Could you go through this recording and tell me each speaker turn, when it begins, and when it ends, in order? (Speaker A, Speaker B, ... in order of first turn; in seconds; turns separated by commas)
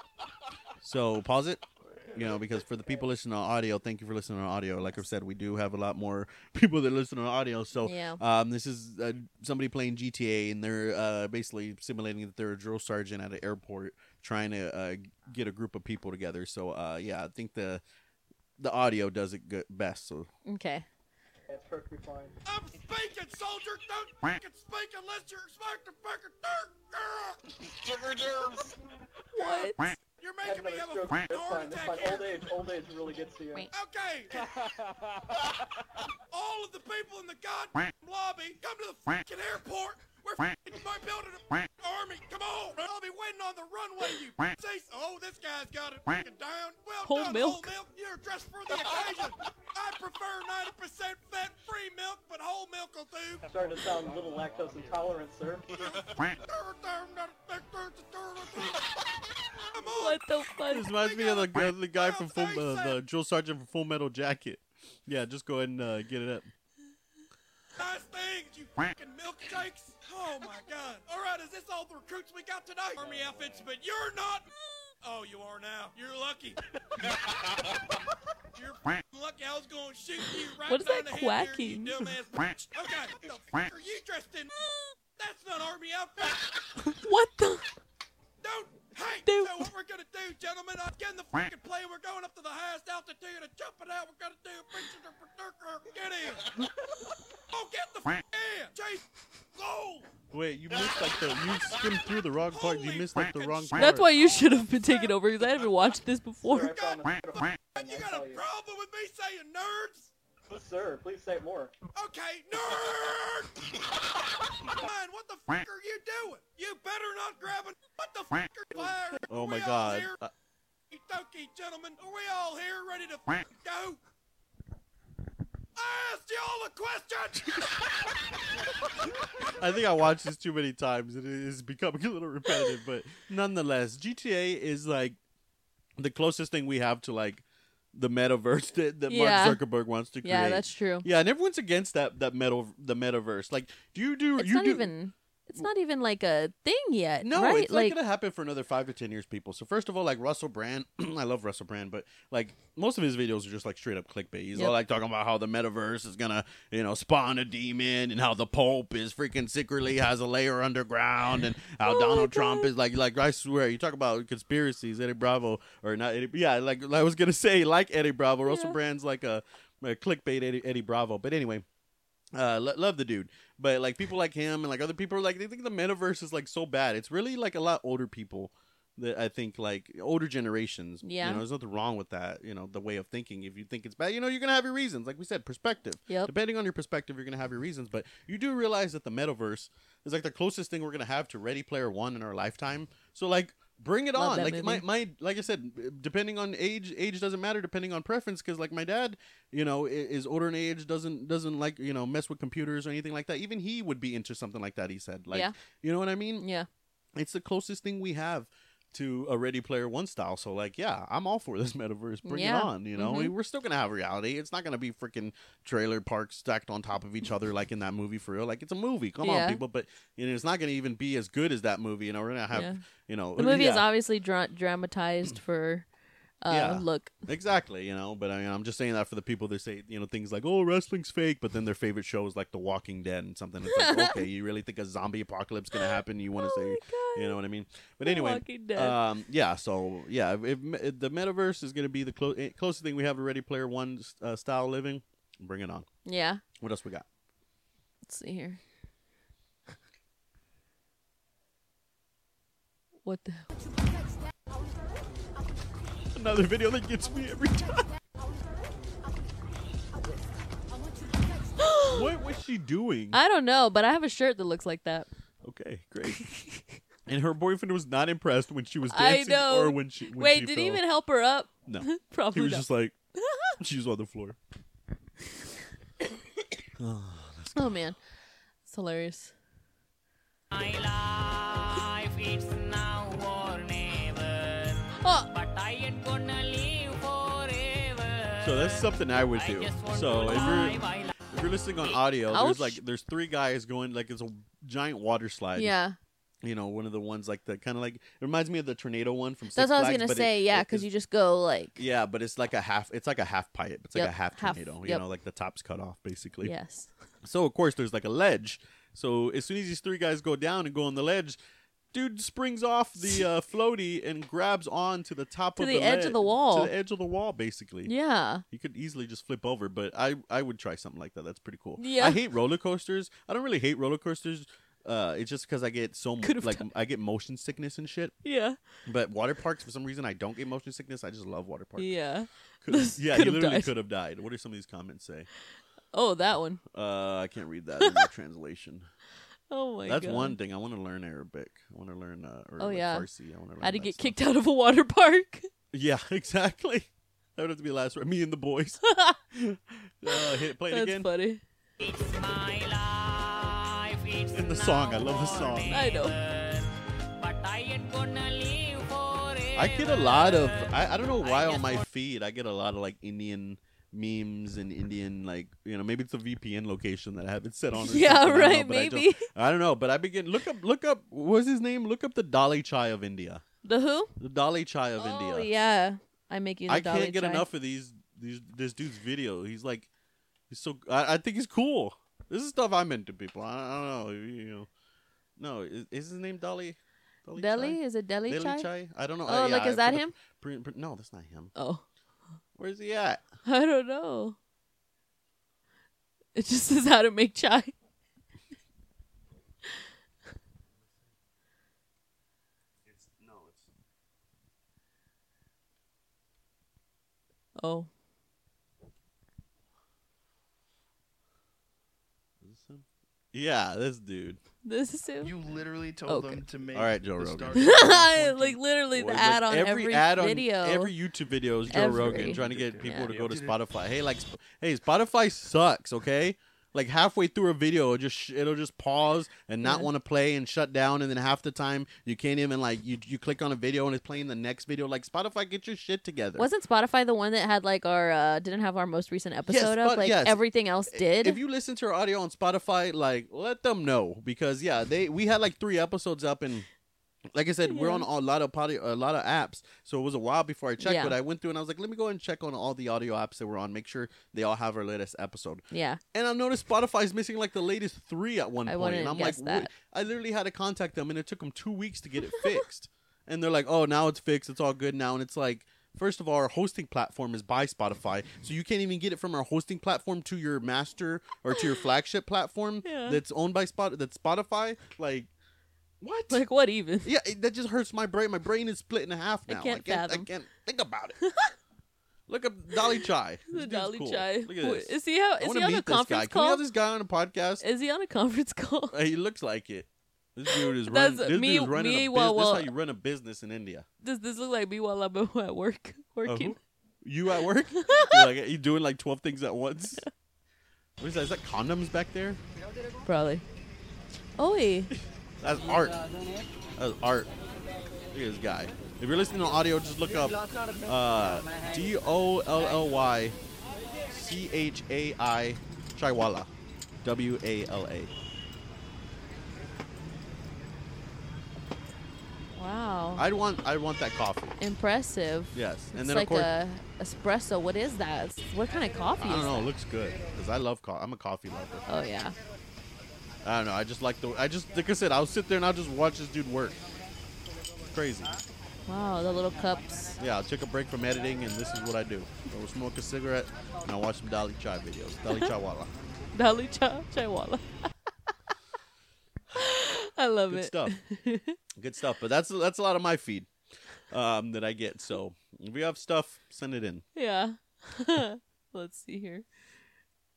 Speaker A: 0.8-17.8, Speaker B: 7.8-8.2, Speaker A: 18.6-20.3, Speaker B: 20.5-20.9, Speaker C: 21.5-22.4, Speaker D: 22.5-27.4, Speaker C: 27.7-28.8, Speaker B: 29.3-29.9, Speaker D: 29.4-32.4, Speaker C: 30.4-33.7, Speaker D: 33.7-34.4, Speaker C: 34.5-34.9, Speaker D: 36.3-53.5, Speaker B: 47.0-47.7, Speaker C: 53.5-56.0, Speaker D: 55.8-58.9, Speaker D: 59.6-60.2, Speaker B: 60.0-60.9, Speaker A: 60.7-66.5, Speaker D: 60.8-63.0, Speaker D: 67.8-74.5, Speaker D: 75.0-77.8, Speaker D: 78.5-84.5, Speaker B: 80.7-82.1, Speaker D: 85.2-86.6, Speaker B: 87.0-87.7, Speaker D: 88.4-96.6, Speaker B: 89.2-89.7, Speaker D: 97.4-100.1, Speaker A: 100.3-104.1, Speaker D: 102.5-105.2, Speaker B: 103.8-106.7, Speaker C: 106.5-108.4, Speaker D: 106.6-110.1, Speaker C: 110.5-111.7, Speaker D: 112.0-113.8, Speaker D: 114.4-120.2, Speaker A: 119.3-120.3, Speaker D: 120.9-124.0, Speaker D: 125.8-128.4, Speaker A: 129.5-135.2, Speaker A: 136.0-144.9, Speaker B: 139.1-139.6, Speaker B: 140.2-141.1, Speaker B: 144.4-148.0, Speaker A: 147.2-171.7, Speaker B: 161.8-162.7, Speaker B: 168.5-168.8, Speaker A: 172.3-206.5, Speaker B: 181.0-181.4, Speaker B: 194.2-194.8, Speaker B: 206.4-206.7, Speaker A: 207.2-223.9, Speaker B: 212.2-213.3, Speaker B: 219.2-219.6, Speaker B: 222.5-222.8, Speaker B: 223.4-225.9, Speaker B: 226.4-227.1, Speaker A: 226.5-245.9, Speaker B: 233.7-234.2, Speaker B: 236.4-237.4, Speaker B: 238.0-239.0, Speaker B: 246.1-246.4, Speaker A: 246.6-247.1, Speaker B: 248.1-248.6, Speaker B: 253.0-253.5, Speaker A: 256.1-257.9, Speaker B: 261.6-262.1, Speaker A: 261.9-263.2, Speaker B: 263.1-265.1, Speaker A: 265.4-266.3, Speaker B: 266.2-266.6, Speaker A: 267.1-270.8, Speaker B: 268.9-272.6, Speaker A: 271.7-273.0, Speaker A: 273.6-274.4, Speaker A: 276.8-277.9, Speaker B: 277.6-278.0, Speaker B: 278.7-279.3, Speaker E: 280.5-291.3, Speaker B: 285.0-285.3, Speaker A: 288.4-295.7, Speaker B: 290.3-290.6, Speaker B: 292.3-292.8, Speaker B: 295.6-296.0, Speaker A: 296.4-300.9, Speaker B: 299.6-301.8, Speaker A: 301.8-306.5, Speaker B: 303.9-305.0, Speaker B: 306.4-306.9, Speaker A: 307.2-311.4, Speaker A: 311.9-317.9, Speaker B: 315.6-316.7, Speaker B: 317.9-318.4, Speaker A: 318.5-328.1, Speaker B: 321.8-322.2, Speaker B: 326.2-326.7, Speaker B: 328.2-328.6, Speaker A: 328.9-332.0, Speaker B: 331.8-333.7, Speaker A: 332.6-335.3, Speaker B: 335.9-336.6, Speaker A: 336.7-338.9, Speaker B: 337.8-338.1, Speaker B: 339.5-340.4, Speaker A: 339.9-344.2, Speaker B: 342.6-343.1, Speaker B: 343.6-345.5, Speaker A: 345.7-348.8, Speaker B: 348.9-349.2, Speaker A: 349.3-351.1, Speaker B: 350.1-351.4, Speaker E: 351.8-361.8, Speaker A: 354.3-355.8, Speaker B: 355.7-356.2, Speaker A: 359.6-373.4, Speaker B: 367.8-369.3, Speaker B: 373.6-374.1, Speaker A: 374.2-375.5, Speaker B: 375.0-377.5, Speaker A: 376.7-379.9, Speaker A: 380.5-384.7, Speaker A: 385.4-391.5, Speaker B: 387.4-388.7, Speaker B: 389.3-390.1, Speaker B: 391.6-391.8, Speaker A: 392.6-393.2, Speaker B: 393.4-394.4, Speaker B: 396.4-397.7, Speaker A: 402.9-403.7, Speaker B: 407.6-407.9, Speaker A: 412.4-414.4, Speaker B: 414.6-415.4, Speaker F: 415.4-417.6, Speaker B: 416.1-416.4, Speaker A: 416.7-436.5, Speaker B: 417.5-420.9, Speaker B: 421.7-423.1, Speaker F: 423.2-423.5, Speaker B: 429.6-429.9, Speaker B: 436.4-441.4, Speaker A: 439.4-446.7, Speaker A: 447.3-475.3, Speaker B: 447.7-448.1, Speaker B: 450.8-451.2, Speaker B: 455.7-456.0, Speaker B: 458.7-459.7, Speaker B: 472.8-473.2, Speaker A: 476.0-476.4, Speaker B: 476.3-477.1, Speaker A: 477.0-481.2, Speaker B: 479.5-480.3, Speaker B: 481.2-481.5, Speaker A: 482.3-487.6, Speaker B: 483.5-486.6, Speaker B: 487.6-489.0, Speaker A: 488.9-493.9, Speaker B: 490.5-492.7, Speaker B: 494.0-496.6, Speaker A: 496.2-500.1, Speaker B: 497.7-498.2, Speaker A: 501.0-502.4, Speaker B: 503.1-503.4, Speaker B: 504.4-504.9, Speaker A: 504.9-506.0, Speaker A: 506.8-507.3, Speaker A: 508.1-513.4, Speaker A: 514.1-516.5, Speaker A: 517.0-518.1, Speaker B: 522.6-523.2, Speaker A: 523.2-524.6, Speaker B: 524.6-529.7, Speaker A: 525.5-526.5, Speaker A: 529.2-531.8, Speaker B: 531.9-532.4, Speaker A: 533.4-536.8, Speaker A: 537.9-538.4, Speaker B: 538.9-540.2, Speaker A: 540.2-546.0, Speaker B: 546.3-547.7, Speaker B: 549.5-551.6, Speaker A: 550.5-551.0, Speaker A: 551.8-553.5, Speaker A: 554.1-557.0, Speaker B: 557.1-559.5